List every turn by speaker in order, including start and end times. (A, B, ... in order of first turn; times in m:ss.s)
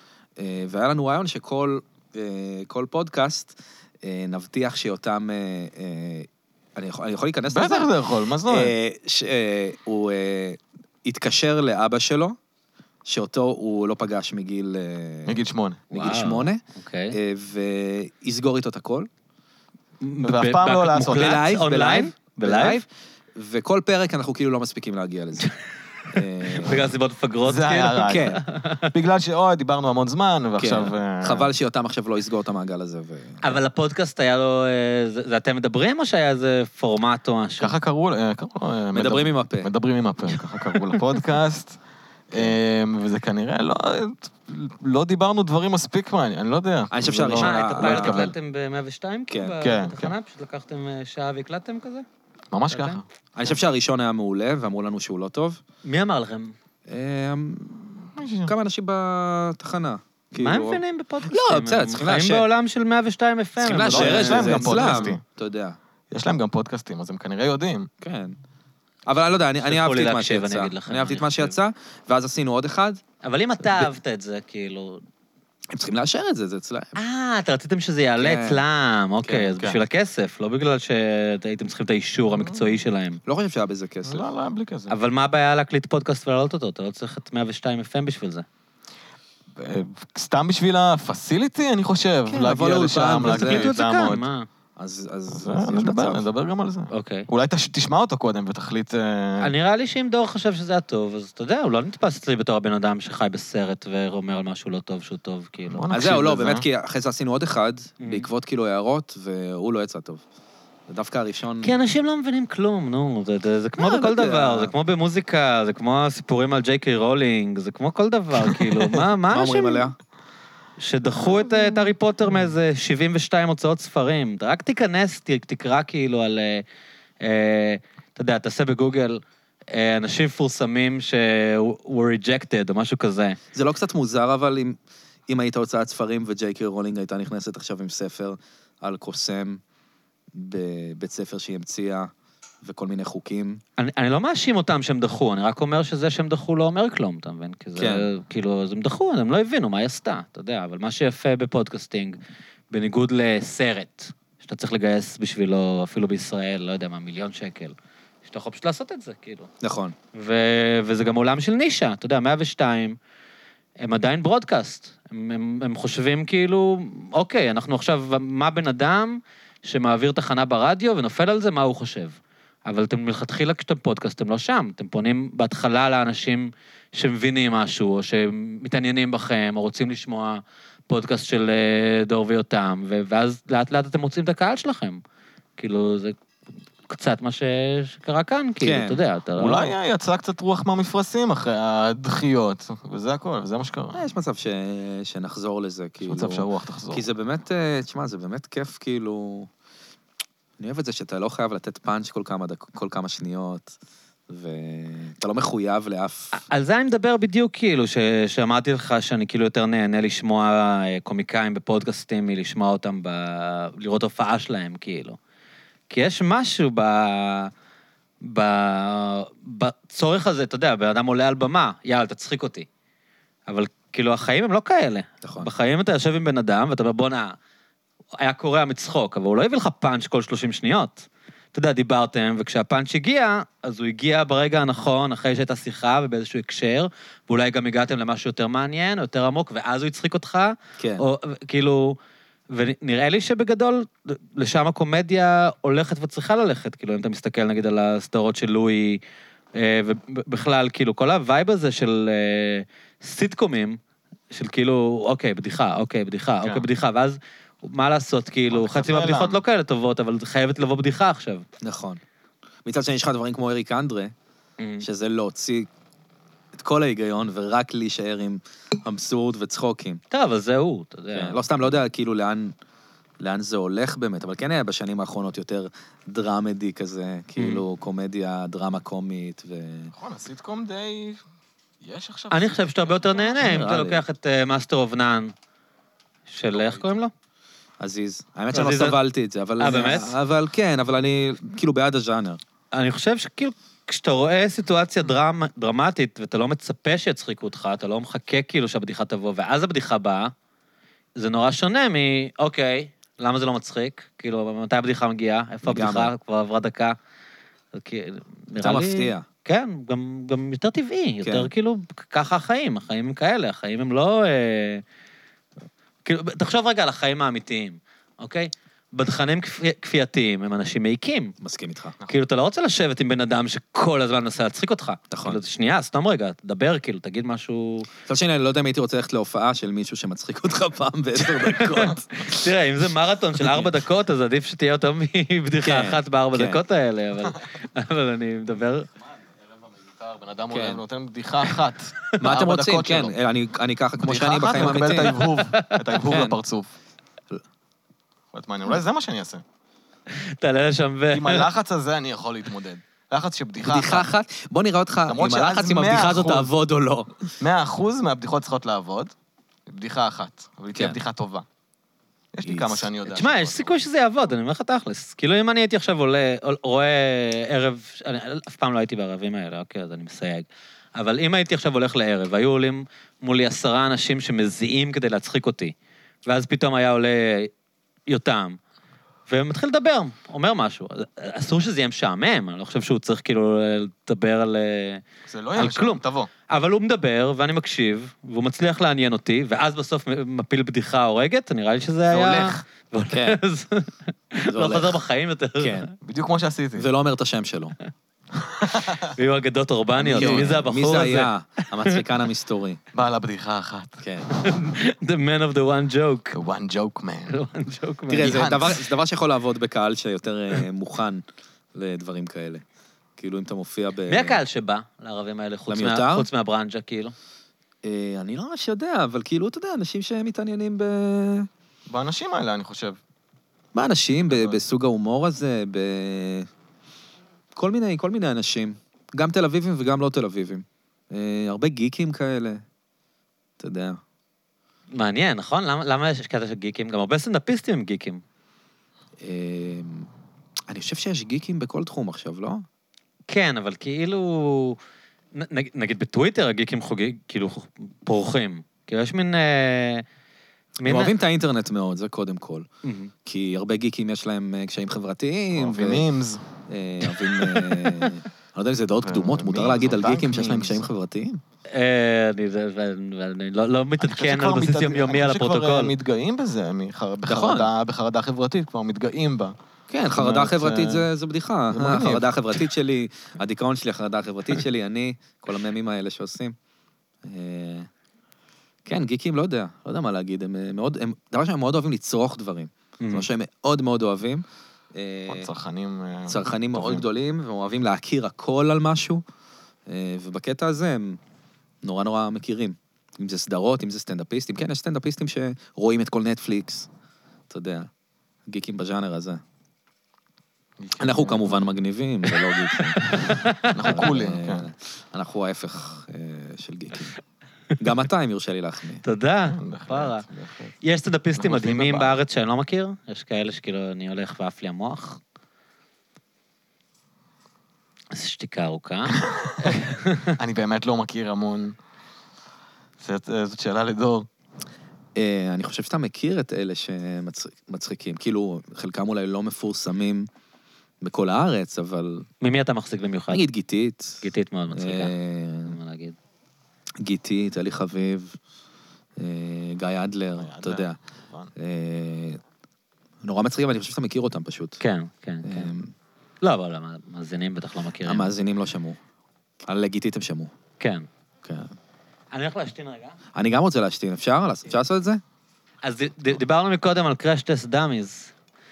0:00.4-0:07.9 A
0:07.5-0:08.7 B
0:08.4-0:12.4 A
0:13.0-0:19.1 A
0:15.2-0:15.9 B
0:15.9-0:17.2 C
0:20.0-0:22.8 C
0:20.2-0:21.4 B
0:21.0-0:25.5 A
0:26.1-0:26.8 A
0:26.1-0:28.9 C
0:27.4-0:31.5 B
0:28.0-0:28.4 A
0:30.6-0:33.6 A
0:33.4-0:37.7 C
0:37.6-0:41.8 B
0:38.9-0:39.7 A
0:42.3-0:48.3 B
0:46.9-0:48.3 A
0:47.3-0:52.0 C
0:49.3-0:49.6 A
0:49.6-0:50.1 B
0:52.5-0:53.0 B
0:52.7-0:53.0 C
0:53.3-0:55.6 A
0:55.8-0:56.5 C
0:56.9-1:02.4 A
0:58.2-0:58.5 B
1:00.4-1:05.1 C
1:03.6-1:05.8 A
1:03.7-1:05.2 B
1:06.1-1:07.9 B
1:08.0-1:08.4 A
1:09.1-1:13.0 A
1:09.6-1:11.6 C
1:13.2-1:15.0 C
1:15.7-1:17.0 A
1:17.0-1:23.2 C
1:18.2-1:18.6 A
1:19.2-1:19.5 A
1:19.5-1:19.8 B
1:22.3-1:22.8 B
1:23.2-1:24.3 A
1:24.0-1:24.9 B
1:24.9-1:28.4 C
1:29.5-1:34.2 B
1:32.3-1:33.7 A
1:33.2-1:34.5 C
1:34.8-1:36.2 A
1:35.3-1:39.5 B
1:36.9-1:37.3 C
1:39.4-1:45.9 C
1:45.7-1:46.6 B
1:45.9-1:50.2 A
1:48.0-1:48.3 C
1:50.9-1:51.8 A
1:51.6-1:59.9 C
1:53.8-1:54.7 A
1:58.4-1:59.0 B
1:59.3-1:59.9 A
2:00.8-2:06.6 C
2:01.1-2:02.5 B
2:07.2-2:13.4 C
2:13.5-2:14.8 A
2:15.3-2:19.6 A
2:20.3-2:22.1 A
2:22.6-2:23.6 A
2:23.8-2:32.2 C
2:27.8-2:28.1 A
2:32.7-2:37.7 C
2:38.2-2:39.5 C
2:39.6-2:39.9 A
2:40.1-2:43.0 C
2:43.8-3:05.0 C
3:05.6-3:06.1 C
3:06.9-3:09.7 C
3:08.6-3:09.0 A
3:09.4-3:14.0 B
3:13.9-3:19.5 A
3:16.0-3:17.0 B
3:20.6-3:23.8 A
3:24.3-3:26.4 A
3:26.3-3:35.2 C
3:35.9-3:37.5 C
3:38.2-3:42.7 C
3:43.5-3:47.4 C
3:45.2-3:45.5 A
3:48.2-4:02.0 C
4:00.8-4:01.0 A
4:02.5-4:09.0 C
4:09.5-4:13.8 C
4:14.3-4:21.4 C
4:18.5-4:19.4 B
4:21.6-4:22.0 A
4:22.6-4:24.1 A
4:24.6-4:24.8 C
4:24.8-4:25.7 A
4:26.5-4:30.0 A
4:30.1-4:31.4 C
4:31.1-4:32.6 A
4:33.2-4:39.9 A
4:37.4-4:37.6 C
4:39.9-4:41.2 B
4:41.8-4:43.6 B
4:42.3-4:45.3 C
4:43.4-4:44.0 A
4:46.3-4:47.1 C
4:46.5-4:47.0 B
4:47.8-4:52.4 A
4:48.5-4:49.0 C
4:49.6-4:50.1 C
4:52.7-5:00.3 C
5:01.2-5:07.0 C
5:05.6-5:06.1 A
5:07.7-5:14.8 C
5:08.6-5:09.2 A
5:11.2-5:11.5 A
5:16.0-5:21.3 C
5:21.4-5:22.0 A
5:22.0-5:27.9 C
5:25.1-5:25.4 A
5:28.1-5:32.5 A
5:31.3-5:38.9 C
5:33.4-5:33.7 A
5:35.6-5:36.6 A
5:39.5-5:43.2 B
5:40.5-5:40.8 A
5:42.2-5:45.2 A
5:44.0-5:46.7 B
5:44.7-5:45.9 C
5:46.1-5:46.3 A
5:48.3-5:49.4 B
5:50.1-5:51.5 C
5:51.1-5:54.1 B
5:53.6-5:57.3 A
5:55.1-5:56.5 B
5:57.4-5:59.1 B
5:59.7-6:01.4 B
6:00.7-6:01.0 A
6:02.3-6:03.8 B
6:02.4-6:02.9 A
6:03.1-6:15.7 C
6:16.2-6:17.5 C
6:18.1-6:18.6 C
6:19.3-6:25.0 C
6:25.2-6:26.3 B
6:25.6-6:35.8 C
6:32.1-6:32.6 B
6:33.1-6:33.4 A
6:34.4-6:35.0 A
6:35.6-6:35.9 A
6:36.0-6:36.9 B
6:36.8-6:37.7 A
6:38.4-6:39.2 B
6:39.0-6:41.3 C
6:40.0-6:40.6 B
6:40.1-6:42.8 A
6:42.9-6:44.0 B
6:44.0-6:44.3 A
6:44.3-6:46.3 C
6:46.3-6:47.4 B
6:47.3-6:48.5 C
6:48.1-6:51.2 A
6:48.2-6:48.8 B
6:51.7-6:52.6 A
6:53.2-6:54.4 A
6:54.1-6:57.1 C
6:55.7-6:56.3 A
6:57.8-7:01.5 A
7:01.9-7:03.0 B
7:03.7-7:06.5 A
7:04.3-7:04.6 B
7:07.5-7:12.6 A
7:13.6-7:14.0 A
7:14.9-7:18.2 C
7:19.2-7:20.1 A
7:20.7-7:22.6 A
7:23.3-7:24.8 C
7:25.3-7:30.0 C
7:30.8-7:31.1 C
7:30.8-7:32.7 A
7:32.8-7:33.1 C
7:33.2-7:36.1 A
7:35.5-7:36.4 B
7:36.7-7:41.4 A
7:37.1-7:37.9 B
7:39.0-7:40.8 B
7:41.7-7:45.9 C
7:44.0-7:49.6 B
7:47.2-7:47.7 A
7:49.9-7:56.5 A
7:50.1-7:51.1 B
7:51.7-7:52.3 B
7:57.2-7:57.9 A
7:58.8-8:04.4 A
8:03.0-8:03.3 C
8:04.9-8:05.5 A
8:05.3-8:07.0 B
8:06.3-8:09.2 A
8:09.9-8:11.2 A
8:11.8-8:16.9 A
8:17.5-8:17.9 A
8:18.5-8:19.4 A
8:20.8-8:21.7 B
8:21.0-8:27.2 A
8:22.7-8:24.0 C
8:23.7-8:24.7 B
8:27.8-8:29.0 A
8:29.0-8:30.2 C
8:29.5-8:30.7 B
8:30.8-8:35.2 C
8:31.3-8:32.2 B
8:38.1-8:40.4 C
8:39.2-8:39.8 B
8:40.4-8:41.8 B
8:43.0-8:44.3 B
8:45.2-8:50.3 A
8:51.0-8:52.3 A
8:52.4-8:53.5 C
8:53.3-8:55.8 A
8:54.2-8:55.1 C
8:55.6-8:56.2 C
8:57.0-8:58.4 A
8:59.2-9:01.0 A
9:00.4-9:01.5 B
9:01.6-9:02.4 A
9:03.2-9:04.8 A
9:04.8-9:05.7 C
9:05.4-9:05.9 A
9:06.4-9:08.3 C
9:08.0-9:09.0 A
9:09.6-9:10.5 A
9:10.8-9:11.1 C
9:11.4-9:11.7 A
9:12.3-9:13.2 C
9:13.3-9:15.2 A
9:15.8-9:18.3 C